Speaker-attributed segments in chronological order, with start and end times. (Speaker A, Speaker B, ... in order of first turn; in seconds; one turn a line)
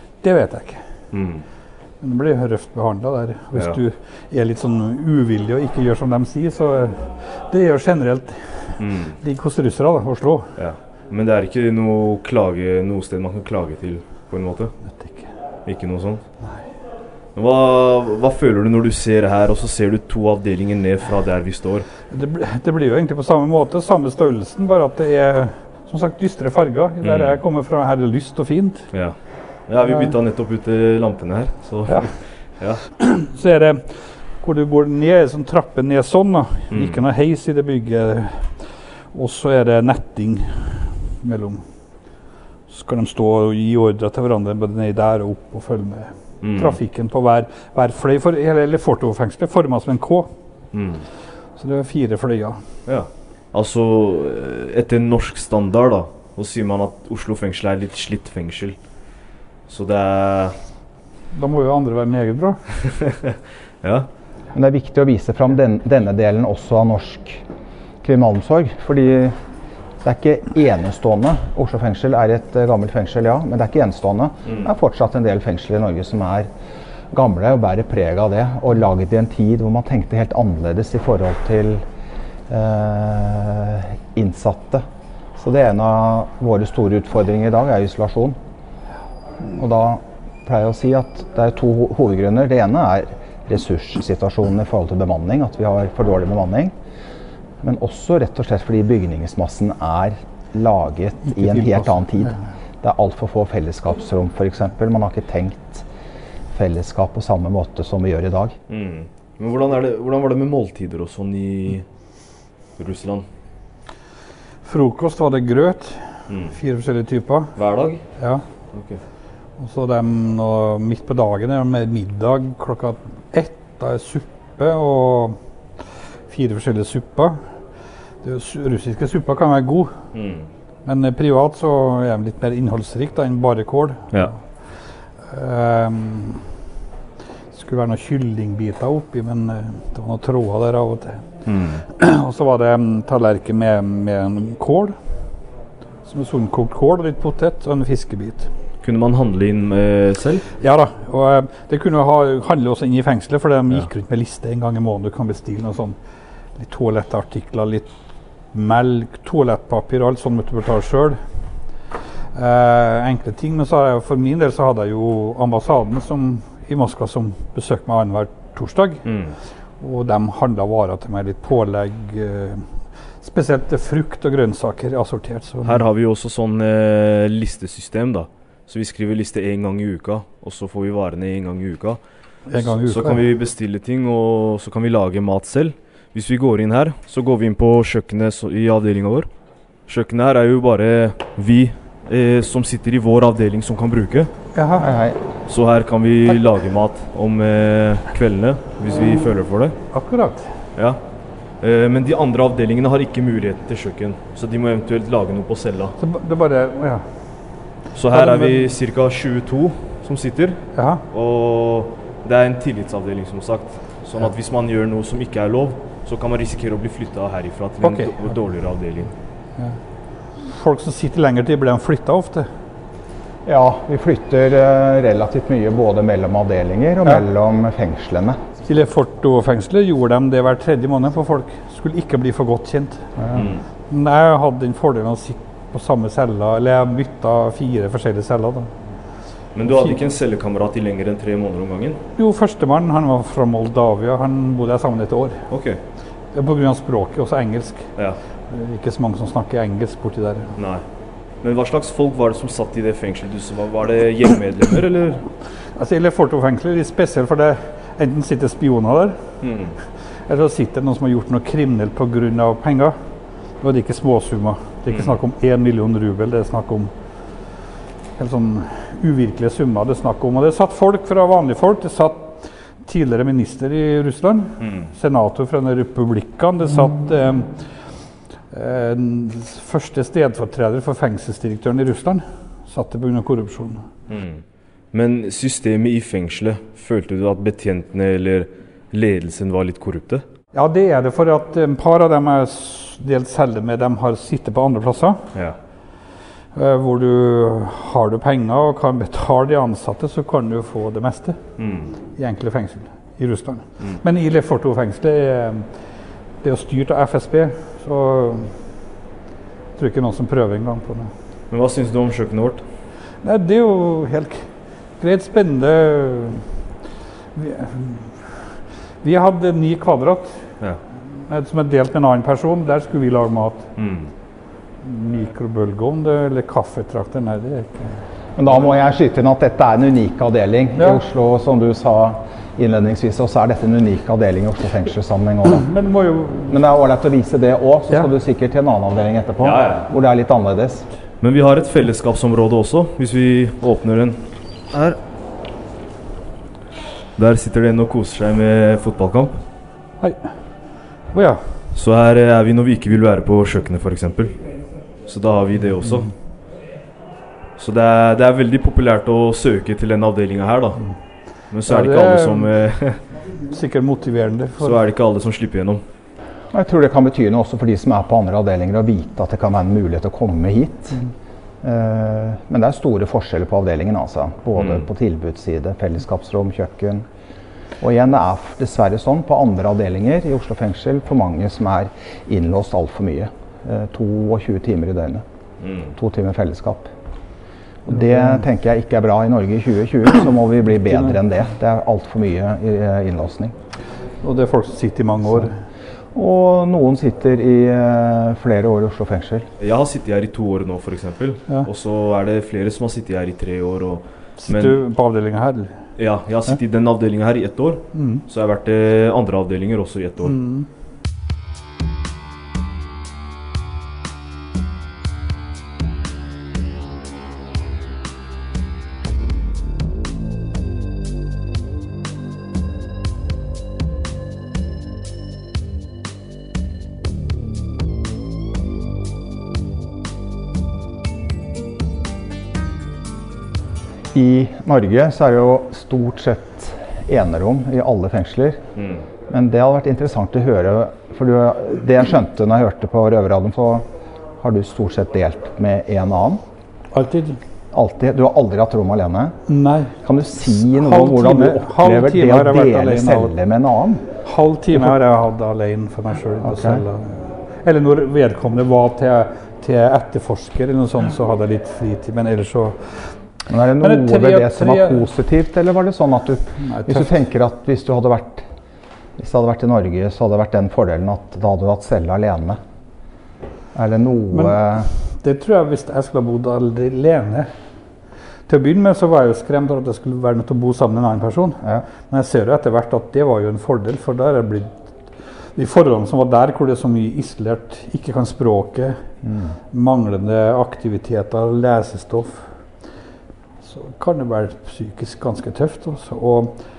Speaker A: 0.2-0.8
Speaker B: 1.1-1.4
Speaker A: 2.0-10.5
Speaker B: 8.8-9.2
Speaker B: 10.6-14.7
Speaker A: 14.9-15.3
Speaker B: 15.7-16.2
Speaker B: 17.4-21.9
Speaker A: 22.1-28.8
Speaker B: 27.0-27.4
Speaker B: 29.7-32.8
Speaker A: 33.0-38.5
Speaker B: 36.7-37.0
Speaker A: 39.1-41.6
Speaker A: 42.7-50.3
Speaker B: 46.4-46.8
Speaker B: 50.7-51.0
Speaker A: 51.6-52.6
Speaker B: 52.9-58.8
Speaker B: 59.7-60.6
Speaker A: 61.3-62.6
Speaker B: 63.8-64.1
Speaker C: 64.5-67.4
Speaker C: 68.0-69.4
Speaker C: 70.0-76.5
Speaker C: 77.1-81.8
Speaker C: 82.5-84.8
Speaker C: 85.4-88.4
Speaker C: 89.4-96.7
Speaker C: 97.6-105.9
Speaker A: 101.3-102.4
Speaker C: 106.5-108.6
Speaker B: 108.7-111.8
Speaker B: 112.8-113.3
Speaker A: 114.7-117.5
Speaker B: 116.3-116.5
Speaker B: 117.6-118.0
Speaker A: 118.2-118.4
Speaker B: 118.7-119.0
Speaker A: 119.6-125.4
Speaker A: 126.3-127.4
Speaker A: 128.2-129.9
Speaker B: 130.1-130.5
Speaker A: 130.9-134.3
Speaker A: 135.3-136.4
Speaker A: 137.5-141.2
Speaker B: 141.5-141.8
Speaker A: 141.9-145.0
Speaker A: 146.1-148.5
Speaker B: 148.8-150.5
Speaker A: 150.6-156.0
Speaker A: 156.6-157.9
Speaker A: 158.5-161.2
Speaker A: 162.3-169.1
Speaker B: 169.1-169.3
Speaker A: 169.8-172.7
Speaker A: 173.2-175.8
Speaker B: 175.6-182.0
Speaker A: 182.5-183.2
Speaker B: 182.6-189.3
Speaker B: 189.9-194.3
Speaker A: 194.6-194.9
Speaker C: 194.8-195.2
Speaker B: 195.5-199.8
Speaker A: 199.9-200.5
Speaker B: 201.6-206.0
Speaker A: 206.0-207.0
Speaker B: 207.9-219.1
Speaker A: 208.1-208.6
Speaker A: 210.8-211.0
Speaker A: 217.8-218.2
Speaker A: 220.4-222.5
Speaker C: 223.5-228.4
Speaker A: 228.7-238.7
Speaker B: 239.6-242.0
Speaker A: 242.2-245.5
Speaker B: 245.5-245.8
Speaker A: 246.3-247.9
Speaker A: 248.5-250.6
Speaker B: 250.6-250.8
Speaker B: 251.4-255.3
Speaker A: 255.8-259.2
Speaker B: 259.4-259.8
Speaker A: 260.3-263.0
Speaker A: 263.6-266.9
Speaker A: 268.2-277.6
Speaker B: 274.6-274.9
Speaker A: 278.5-283.9
Speaker B: 284.1-284.4
Speaker B: 284.9-290.2
Speaker A: 290.5-295.3
Speaker A: 296.6-301.4
Speaker B: 301.6-301.9
Speaker A: 302.2-305.7
Speaker A: 306.4-308.5
Speaker A: 309.8-311.1
Speaker B: 311.5-312.6
Speaker A: 313.2-314.5
Speaker A: 315.0-316.4
Speaker A: 317.4-320.4
Speaker A: 321.3-323.7
Speaker B: 323.8-324.1
Speaker A: 324.8-328.0
Speaker C: 328.4-335.7
Speaker A: 330.8-331.0
Speaker A: 335.5-336.6
Speaker C: 336.5-340.9
Speaker B: 339.4-339.9
Speaker B: 341.2-345.0
Speaker B: 347.2-349.4
Speaker A: 350.0-350.3
Speaker A: 351.1-351.4
Speaker B: 351.7-354.4
Speaker B: 355.1-356.1
Speaker B: 357.6-360.8
Speaker B: 361.5-363.0
Speaker A: 361.7-362.5
Speaker A: 363.5-364.8
Speaker B: 364.6-365.8
Speaker C: 366.5-371.0
Speaker C: 371.6-377.1
Speaker B: 374.6-374.9
Speaker C: 377.8-385.2
Speaker B: 385.6-385.9
Speaker C: 385.9-386.9
Speaker C: 387.9-393.5
Speaker A: 387.9-388.4
Speaker A: 394.2-395.6
Speaker C: 396.1-399.5
Speaker B: 399.6-404.8
Speaker A: 404.4-405.8
Speaker B: 406.0-410.4
Speaker A: 407.9-408.2
Speaker A: 410.2-410.7
Speaker C: 434.1-438.6
Speaker B: 438.8-439.0
Speaker C: 439.3-443.9
Speaker C: 444.4-446.4
Speaker A: 446.9-447.4
Speaker C: 447.7-449.4
Speaker A: 449.5-449.9
Speaker C: 450.0-454.1
Speaker A: 450.6-453.3
Speaker A: 454.2-463.1
Speaker C: 456.4-456.8
Speaker C: 463.5-468.5
Speaker A: 463.8-465.1
Speaker A: 466.6-467.2
Speaker C: 469.2-472.6
Speaker C: 473.7-474.9
Speaker A: 474.3-474.6
Speaker A: 475.1-477.5
Speaker A: 478.5-484.9
Speaker A: 485.6-489.0
Speaker C: 489.2-489.6
Speaker A: 489.7-492.5
Speaker A: 493.6-496.6